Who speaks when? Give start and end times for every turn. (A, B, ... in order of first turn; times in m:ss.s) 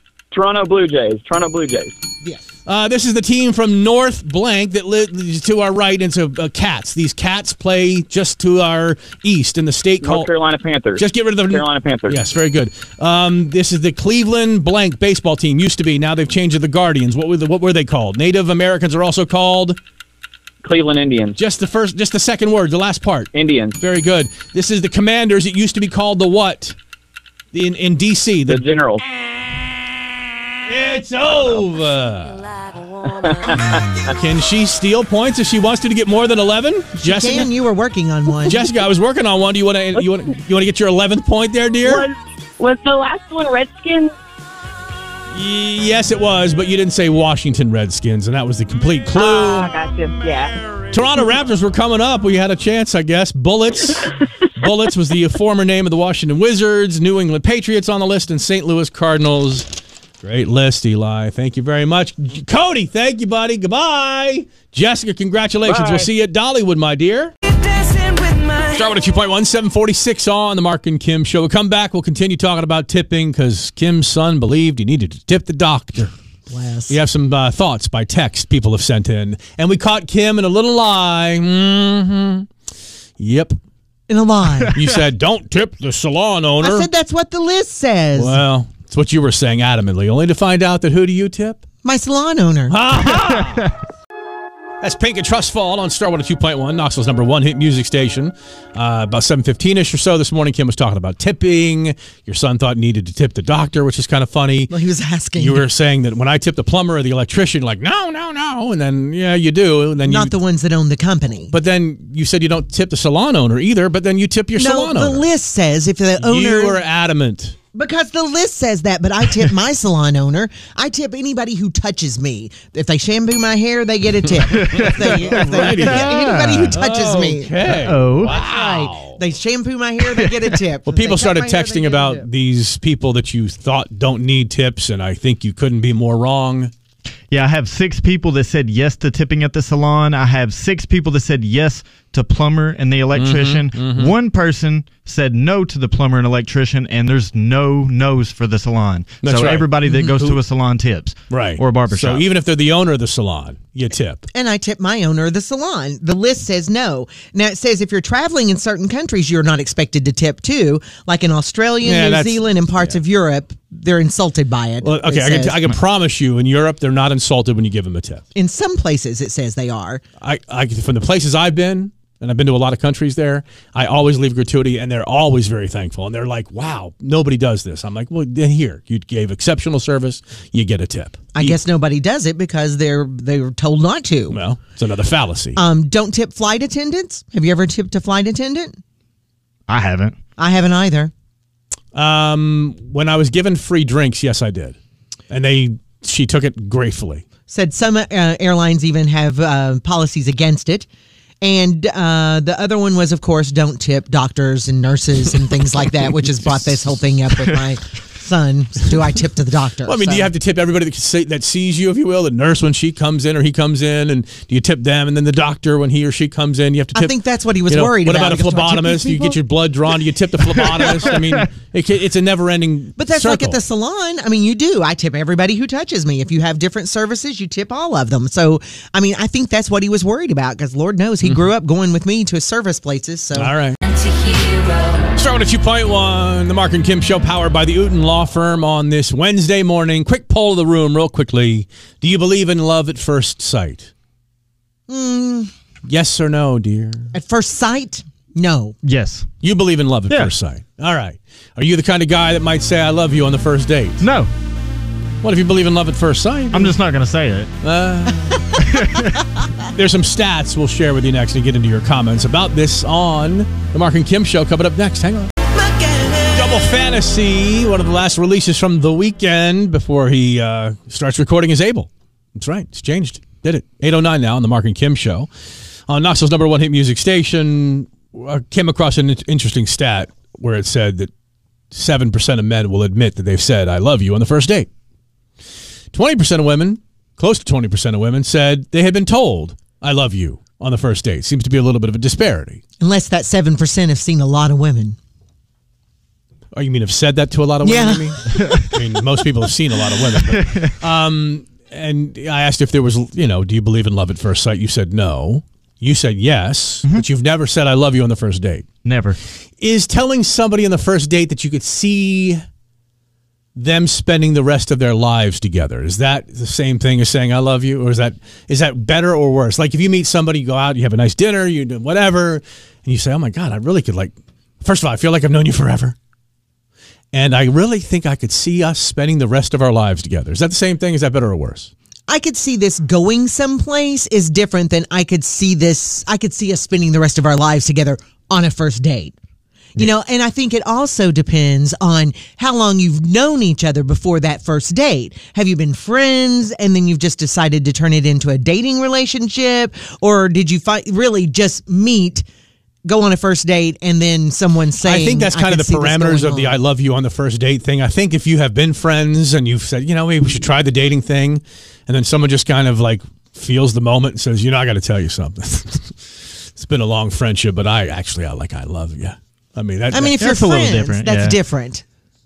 0:00.3-0:01.9 A
0:02.6-0:10.3 B
0:10.0-0:12.2 A
0:11.0-0:19.8 B
0:20.6-0:21.4 A
0:21.4-0:26.8 B
0:23.3-0:23.8 A
0:27.5-0:28.7 B
0:28.4-0:29.0 A
0:30.6-0:32.4 B
0:33.1-0:34.1 A
0:33.6-0:37.5 B
0:37.0-0:38.6 C
0:38.4-0:42.1 B
0:41.8-0:44.1 D
0:45.3-0:49.7 B
0:49.1-0:50.5 D
0:50.9-0:59.7 B
1:00.2-1:07.3 B
1:05.6-1:06.1 A
1:08.7-1:16.1 B
1:16.5-1:17.0 C
1:16.9-1:22.5 B
1:23.2-1:23.6 B
1:24.1-1:24.8 C
1:24.7-1:26.9 B
1:26.6-1:28.4 C
1:28.2-1:31.6 B
1:31.8-1:32.8 C
1:32.7-1:33.7 B
1:34.8-1:44.7 B
1:44.7-1:45.6 C
1:45.4-1:50.3 B
1:50.0-1:51.5 C
1:51.5-1:55.3 B
1:54.6-1:56.8 C
1:56.2-1:57.6 B
1:57.7-2:07.5 C
2:04.5-2:09.2 B
2:04.6-2:06.8 E
2:07.6-2:08.4 E
2:08.3-2:12.2 C
2:10.8-2:16.7 B
2:17.3-2:32.2 E
2:23.1-2:24.1 B
2:29.2-2:30.4 B
2:31.3-2:34.2 B
2:34.3-2:45.7 C
2:41.8-2:43.0 B
2:44.8-2:48.2 B
2:48.3-2:50.0 C
2:50.2-3:01.6 B
3:01.3-3:04.4 C
3:04.3-3:05.6 B
3:05.6-3:08.8 C
3:09.7-3:10.2 E
3:10.4-3:11.1 C
3:11.9-3:14.8 B
3:15.3-3:17.2 B
3:17.5-3:20.9 C
3:21.4-3:30.3 C
3:29.8-3:43.6 B
3:36.9-3:39.4 C
3:43.0-3:53.5 C
3:53.3-3:53.8 B
3:55.1-4:03.9 B
4:04.9-4:05.5 C
4:05.9-4:07.1 B
4:07.1-4:08.8 C
4:08.8-4:09.3 E
4:09.4-4:14.0 B
4:14.0-4:14.3 E
4:15.2-4:16.8 B
4:16.5-4:17.5 E
4:17.6-4:18.5 B
4:18.6-4:19.1 E
4:19.6-4:25.3 B
4:26.3-4:35.3 B
4:35.9-4:41.1 B
4:41.7-4:44.7 B
4:45.9-4:52.6 B
4:52.8-4:55.0 C
4:56.5-5:08.6 B
4:57.6-4:58.1 C
4:58.3-4:58.6 E
5:00.3-5:00.7 E
5:08.8-5:09.2 E
5:09.6-5:12.4 B
5:13.6-5:26.0 B
5:27.1-5:31.7 B
5:32.1-5:39.1 C
5:39.8-5:52.2 C
5:52.8-5:56.6 C
5:54.8-6:06.0 B
6:06.6-6:10.2 B
6:09.9-6:11.8 C
6:10.2-6:11.4 E